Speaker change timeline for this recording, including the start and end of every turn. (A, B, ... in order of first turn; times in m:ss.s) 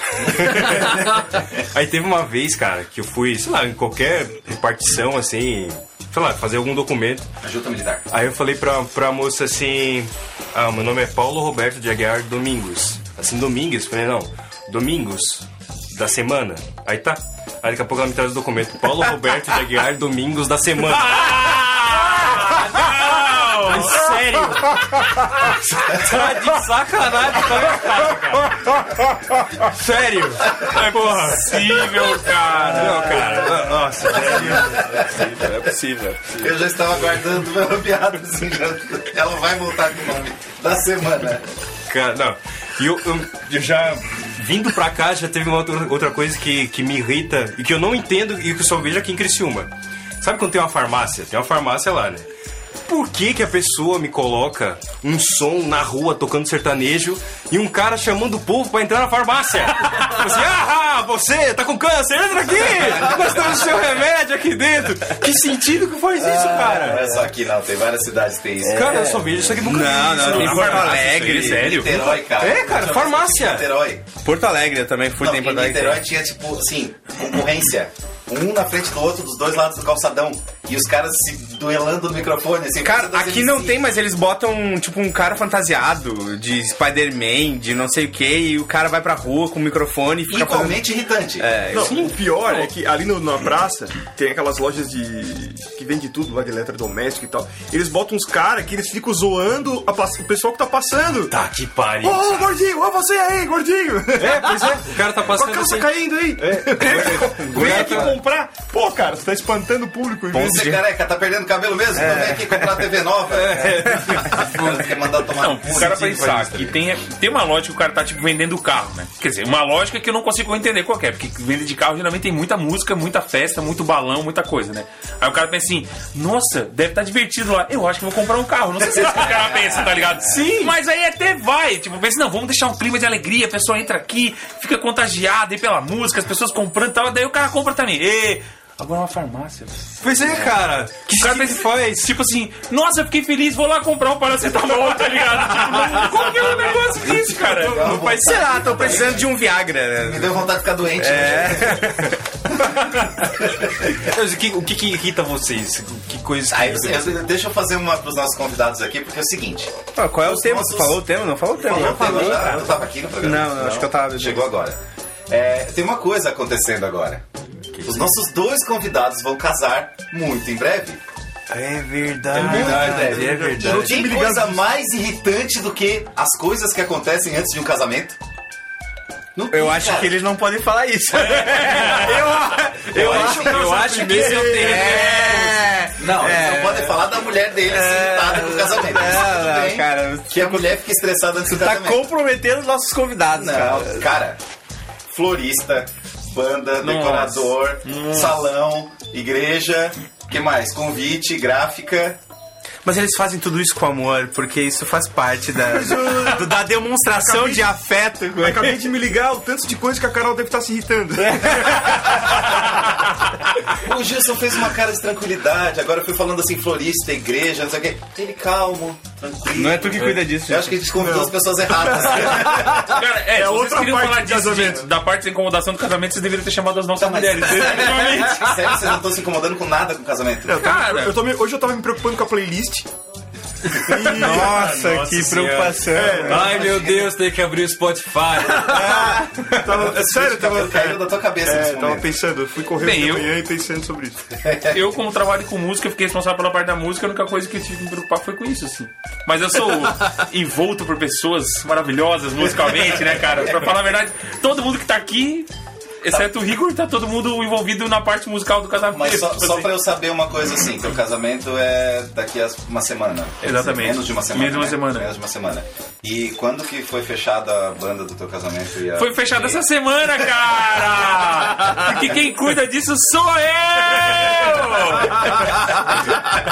0:00.1-0:07.3 A
0:00.6-0:01.2 B
0:07.4-0:08.1 B
0:08.1-0:22.9 A
0:20.8-0:24.2 C
0:23.6-0:28.9 A
0:29.5-0:31.8 A
0:30.5-0:33.4 C
0:32.5-0:35.2 A
0:32.6-0:33.0 D
0:34.1-0:35.5 B
0:35.1-0:36.4 D
0:36.3-0:41.4 B
0:41.9-0:52.3 A
0:52.9-1:07.1 A
1:06.1-1:09.1 B
1:08.6-1:11.0 A
1:08.6-1:11.8 D
1:10.1-1:12.2 C
1:11.3-1:14.0 B
1:12.3-1:13.7 A
1:14.2-1:16.0 D
1:15.2-1:23.8 B
1:22.8-1:32.1 D
1:30.3-1:31.5 B
1:31.7-1:41.4 E
1:31.8-1:32.1 A
1:41.3-1:42.5 A
1:42.0-1:50.8 E
1:44.2-1:48.2 A
1:46.9-1:48.1 D
1:50.3-1:56.4 B
1:52.0-1:52.7 D
1:53.2-1:55.0 A
1:55.4-2:19.8 C
1:55.7-1:56.8 A
2:08.8-2:10.1 B
2:10.2-2:10.8 A
2:20.0-2:22.1 A
2:21.2-2:28.0 C
2:26.9-2:29.3 B
2:27.8-2:30.4 D
2:30.0-2:33.8 B
2:31.0-2:32.2 D
2:33.9-2:37.2 A
2:36.5-2:47.2 B
2:40.0-2:42.6 D
2:41.7-2:42.8 A
2:43.2-2:44.5 D
2:47.8-2:51.0 B
2:51.5-2:54.2 A
2:52.3-2:54.6 E
2:52.3-2:58.2 B
2:59.4-3:00.1 B
2:59.5-3:07.0 D
3:01.2-3:01.9 C
3:01.7-3:05.7 A
3:02.9-3:04.1 B
3:03.0-3:05.1 E
3:05.9-3:12.1 B
3:07.7-3:10.8 D
3:11.5-3:14.1 D
3:13.3-3:14.4 B
3:15.1-3:22.2 B
3:16.8-3:18.4 C
3:22.8-3:29.0 D
3:25.6-3:27.7 E
3:28.4-3:32.6 E
3:31.2-3:32.4 D
3:33.8-3:43.0 B
3:39.5-3:40.9 D
3:41.0-3:44.9 E
3:42.8-3:48.6 C
3:47.0-3:50.6 B
3:50.5-3:52.9 E
3:50.6-3:51.2 C
3:53.8-3:54.7 E
3:53.9-3:59.1 A
3:54.0-3:56.5 D
3:55.9-3:56.6 E
3:56.2-3:57.2 B
3:58.6-4:04.3 E
3:58.8-3:59.5 D
3:59.8-4:02.1 B
4:02.8-4:03.3 C
4:04.4-4:04.8 B
4:04.7-4:15.5 C
4:12.4-4:13.6 B
4:16.0-4:19.7 C
4:18.9-4:29.6 B
4:23.4-4:25.1 C
4:29.0-4:36.0 C